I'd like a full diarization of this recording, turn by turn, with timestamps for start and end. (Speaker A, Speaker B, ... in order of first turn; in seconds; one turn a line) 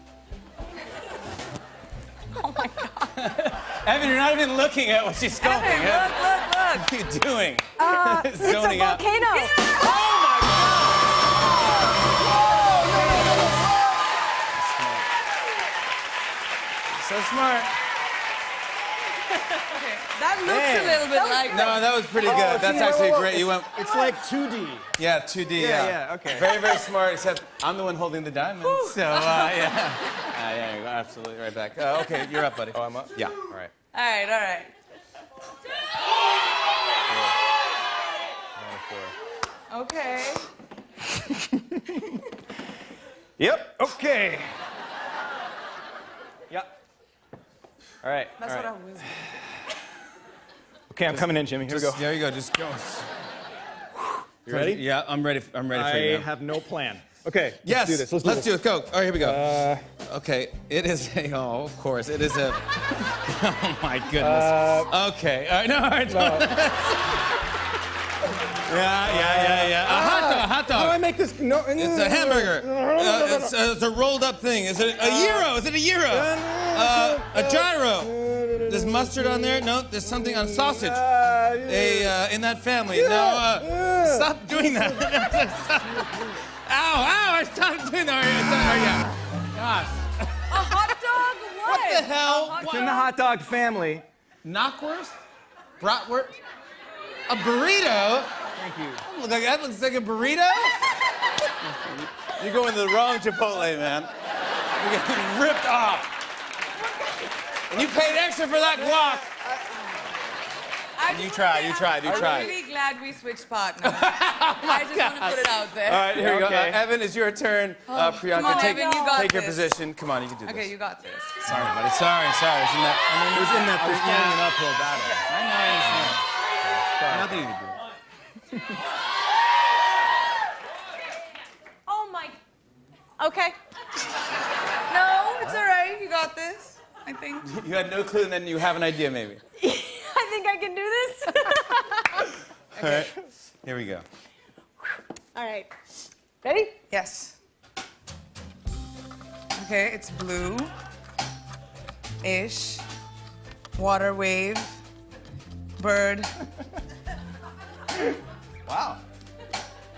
Speaker A: 2.3-3.2
Speaker B: 3.2-11.2
Speaker A: 5.4-6.9
Speaker C: 7.8-9.9
Speaker A: 9.2-9.5
Speaker D: 12.7-13.5
Speaker B: 12.9-13.6
Speaker A: 13.1-13.3
Speaker B: 14.5-15.1
Speaker B: 16.9-17.7
Speaker A: 19.7-21.9
Speaker D: 20.4-21.1
Speaker C: 21.1-21.8
Speaker B: 21.4-24.0
Speaker D: 22.2-24.9
Speaker B: 25.0-33.4
Speaker D: 25.6-26.6
Speaker A: 28.6-29.8
Speaker D: 32.7-33.7
Speaker A: 33.9-34.7
Speaker D: 37.1-37.4
Speaker D: 38.6-39.2
Speaker A: 39.7-40.5
Speaker D: 41.3-42.1
Speaker D: 43.4-44.5
Speaker D: 48.0-48.7
Speaker A: 48.4-49.2
Speaker D: 50.9-52.1
Speaker B: 51.1-53.1
Speaker D: 54.4-54.8
Speaker B: 54.5-56.3
Speaker D: 55.7-58.5
Speaker B: 57.6-59.4
Speaker D: 59.2-59.9
Speaker B: 60.0-67.3
Speaker D: 64.2-64.9
Speaker D: 66.1-66.5
Speaker B: 68.7-71.0
Speaker D: 69.0-73.5
Speaker B: 71.8-78.1
Speaker D: 75.0-75.5
Speaker D: 76.1-82.2
Speaker B: 78.7-81.0
Speaker B: 81.6-91.0
Speaker D: 82.9-85.3
Speaker D: 85.9-86.4
Speaker A: 90.5-93.1
Speaker B: 91.6-93.0
Speaker D: 92.5-94.0
Speaker B: 94.4-95.2
Speaker B: 95.8-96.4
Speaker B: 97.3-98.3
Speaker D: 98.6-99.0
Speaker B: 99.0-100.9
Speaker B: 101.6-104.1
Speaker B: 104.8-106.1
Speaker B: 107.7-109.3
Speaker A: 111.0-116.1
Speaker B: 111.1-112.6
Speaker B: 113.8-120.7
Speaker D: 116.1-116.8
Speaker A: 117.9-119.6
Speaker C: 118.4-119.3
Speaker A: 120.5-121.4
Speaker B: 121.4-124.5
Speaker D: 123.3-125.3
Speaker A: 125.0-125.3
Speaker B: 125.3-126.2
Speaker D: 125.9-127.5
Speaker B: 127.1-127.8
Speaker C: 131.9-132.4
Speaker C: 133.2-133.6
Speaker A: 134.9-137.5
Speaker B: 137.4-139.4
Speaker C: 139.6-142.3
Speaker B: 142.8-144.1
Speaker C: 145.3-145.7
Speaker C: 146.4-146.8
Speaker A: 146.9-147.4
Speaker A: 149.6-150.7
Speaker A: 152.2-152.8
Speaker A: 153.8-154.8
Speaker A: 155.8-156.3
Speaker D: 158.7-159.0